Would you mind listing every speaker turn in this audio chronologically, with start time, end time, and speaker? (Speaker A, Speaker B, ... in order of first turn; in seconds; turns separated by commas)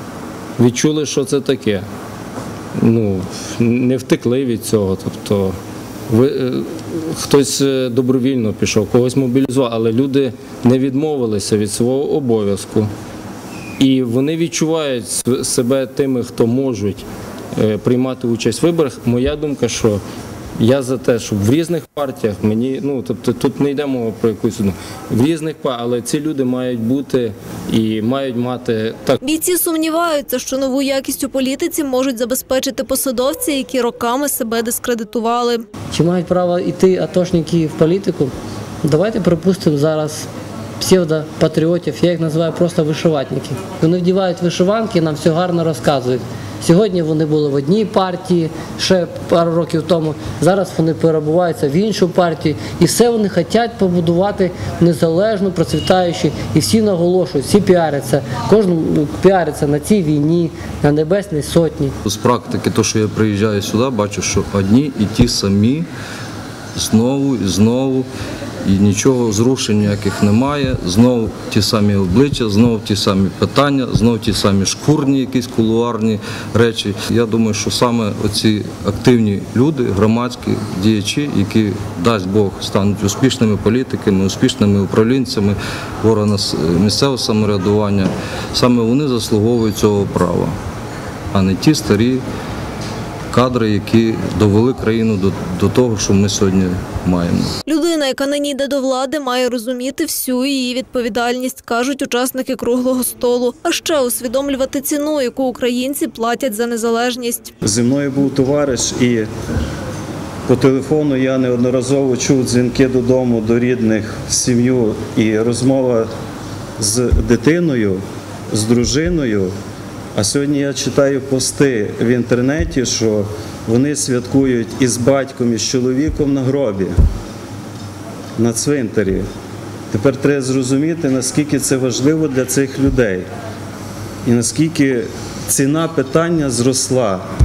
Speaker A: 0.6-1.9, Speaker A: 2.8-5.5, Speaker A: 6.1-12.9, Speaker A: 13.8-17.0, Speaker A: 17.6-20.0, Speaker A: 20.6-29.2, Speaker B: 29.2-35.6, Speaker C: 35.9-40.3, Speaker C: 40.8-62.0, Speaker D: 62.0-65.9, Speaker D: 66.8-68.1, Speaker D: 68.6-90.5, Speaker D: 91.3-92.2, Speaker D: 93.3-97.5, Speaker B: 97.7-107.5, Speaker E: 107.6-109.3, Speaker E: 110.5-116.1, Speaker E: 116.8-119.5, Speaker E: 120.2-126.9, Speaker E: 128.4-129.2, Speaker E: 129.9-133.2, Speaker E: 134.2-137.2